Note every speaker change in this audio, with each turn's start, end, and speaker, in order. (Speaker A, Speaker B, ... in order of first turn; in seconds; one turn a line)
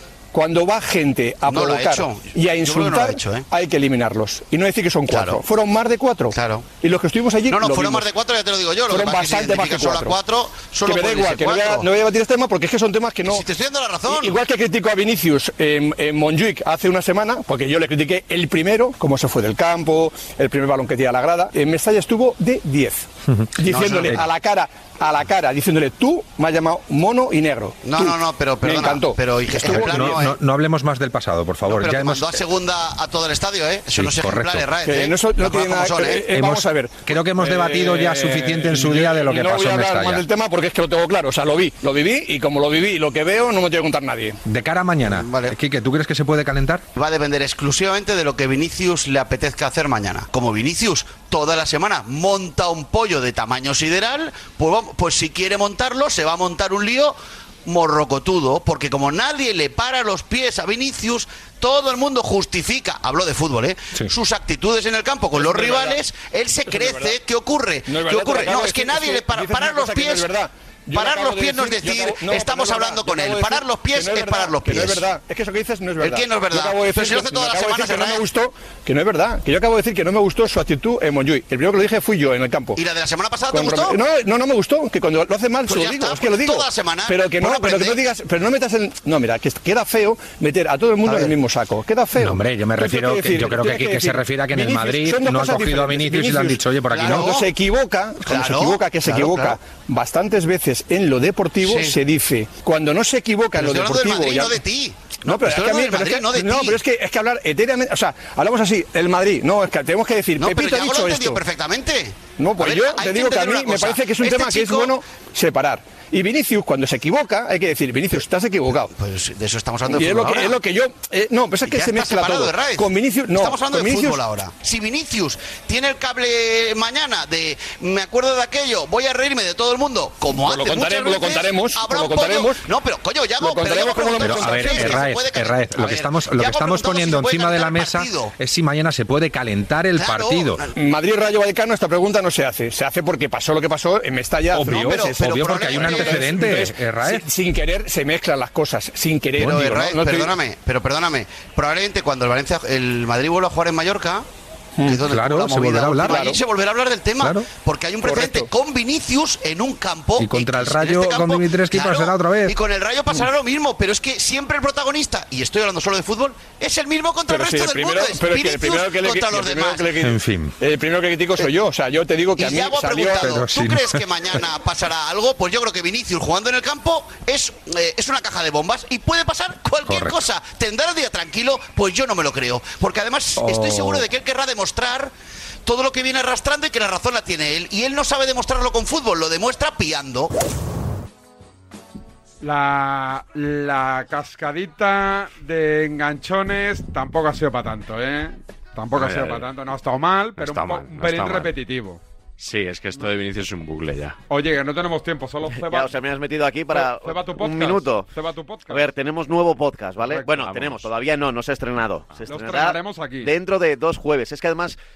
Speaker A: 0.3-8.1
Speaker B: 1.4-3.5
Speaker B: 5.1-5.4
Speaker B: 6.3-6.7
Speaker B: 7.5-11.8
Speaker A: 8.9-10.2
Speaker A: 10.8-13.4
Speaker B: 13.3-14.3
Speaker A: 14.1-30.2
Speaker B: 23.7-24.1
Speaker B: 27.8-30.4
Speaker C: 29.6-32.2
Speaker B: 31.6-36.3
Speaker C: 33.9-34.6
Speaker A: 34.8-44.4
Speaker C: 36.4-40.2
Speaker C: 44.5-46.8
Speaker B: 45.0-45.5
Speaker B: 47.0-70.3
Speaker A: 65.3-66.0
Speaker A: 66.7-67.1
Speaker A: 67.8-82.8
Speaker B: 70.9-75.0
Speaker B: 76.0-78.2
Speaker B: 82.8-84.0
Speaker A: 83.5-104.6
Speaker B: 85.7-88.0
Speaker C: 92.2-97.3
Speaker B: 96.9-97.5
Speaker B: 98.2-99.5
Speaker B: 101.6-102.0
Speaker B: 103.6-106.8
Speaker A: 105.2-111.4
Speaker B: 110.4-115.0
Speaker A: 112.4-118.9
Speaker B: 119.0-120.5
Speaker A: 119.9-124.2
Speaker B: 121.7-138.3
Speaker A: 130.3-132.7
Speaker A: 133.4-135.0
Speaker C: 134.2-140.6
Speaker B: 139.9-140.7
Speaker A: 140.7-150.3
Speaker C: 144.5-147.2
Speaker B: 144.6-146.4
Speaker B: 149.4-154.2
Speaker A: 154.8-155.0
Speaker B: 154.8-169.9
Speaker C: 155.1-156.3
Speaker A: 156.0-156.4
Speaker A: 158.0-158.5
Speaker C: 160.2-162.5
Speaker A: 167.3-173.4
Speaker C: 170.0-170.5
Speaker B: 172.3-185.1
Speaker C: 173.2-174.0
Speaker C: 183.5-184.0
Speaker B: 185.6-190.3
Speaker D: 192.4-202.0
Speaker E: 198.9-199.5
Speaker E: 200.4-201.5
Speaker E: 202.4-204.2
Speaker D: 204.3-205.9
Speaker F: 205.5-208.1
Speaker D: 206.7-208.8
Speaker F: 208.7-214.8
Speaker D: 210.0-210.5
Speaker E: 210.4-210.9
Speaker D: 212.2-213.3